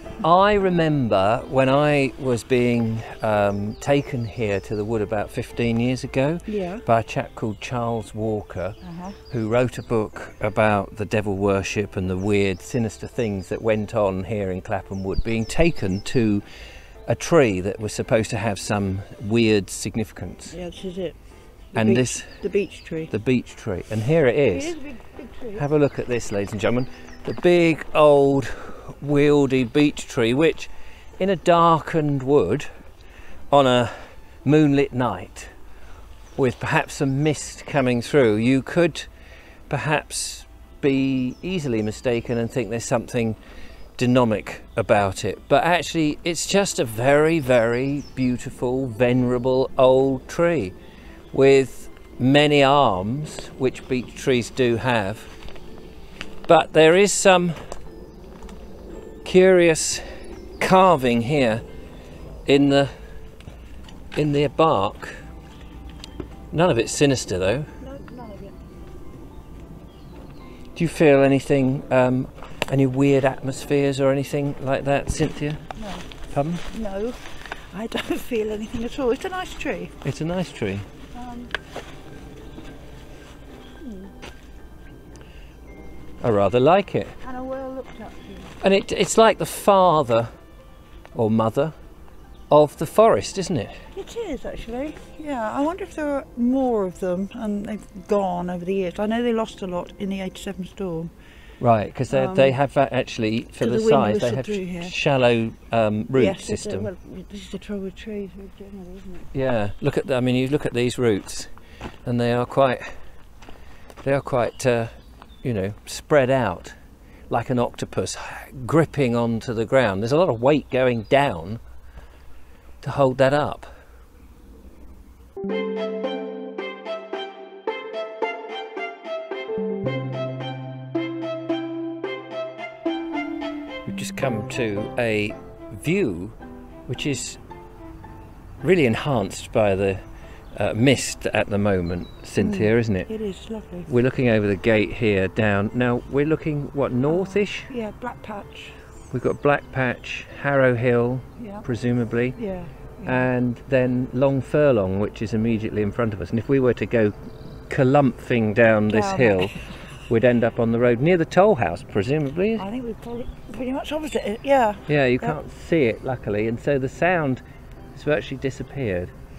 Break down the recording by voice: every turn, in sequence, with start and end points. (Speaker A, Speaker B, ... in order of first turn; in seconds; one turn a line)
Speaker A: 0.2-8.8
Speaker B: 6.5-6.8
Speaker B: 8.8-9.2
Speaker A: 9.3-16.4
Speaker A: 17.1-20.5
Speaker B: 20.5-21.2
Speaker B: 21.7-23.1
Speaker A: 21.7-22.4
Speaker A: 23.1-24.7
Speaker B: 24.5-25.6
Speaker A: 25.6-32.7
Speaker A: 33.5-35.5
Speaker A: 36.4-39.1
Speaker A: 39.7-43.4
Speaker A: 44.0-50.8
Speaker A: 51.3-55.3
Speaker A: 56.5-57.6
Speaker A: 59.2-60.1
Speaker A: 60.6-61.6
Speaker A: 62.5-62.9
Speaker A: 64.1-65.2
Speaker A: 66.5-67.7
Speaker B: 67.8-68.5
Speaker A: 70.7-75.6
Speaker B: 75.8-76.1
Speaker A: 76.3-76.7
Speaker B: 76.7-80.0
Speaker A: 80.0-80.9
Speaker B: 81.1-81.5
Speaker B: 83.8-84.1
Speaker A: 86.2-87.2
Speaker B: 87.2-88.6
Speaker A: 88.6-90.3
Speaker A: 91.1-91.7
Speaker A: 92.5-93.7
Speaker B: 93.9-101.1
Speaker A: 101.6-106.9
Speaker B: 102.1-102.6
Speaker B: 103.6-104.9
Speaker B: 106.1-109.3
Speaker A: 109.3-111.5
Speaker A: 112.0-112.9
Speaker A: 114.0-114.9
Speaker A: 115.4-116.8
Speaker A: 117.3-121.6
Speaker A: 122.8-123.7
Speaker A: 133.8-137.4
Speaker A: 138.6-140.0
Speaker A: 140.5-143.1
Speaker B: 142.4-143.9
Speaker A: 143.9-147.7
Speaker B: 147.0-148.8
Speaker A: 149.1-152.4
Speaker B: 151.4-151.6
Speaker B: 152.3-153.2
Speaker A: 153.0-157.2
Speaker A: 157.7-162.6
Speaker B: 158.9-159.8
Speaker B: 162.6-165.4
Speaker A: 164.9-167.4
Speaker A: 167.9-169.1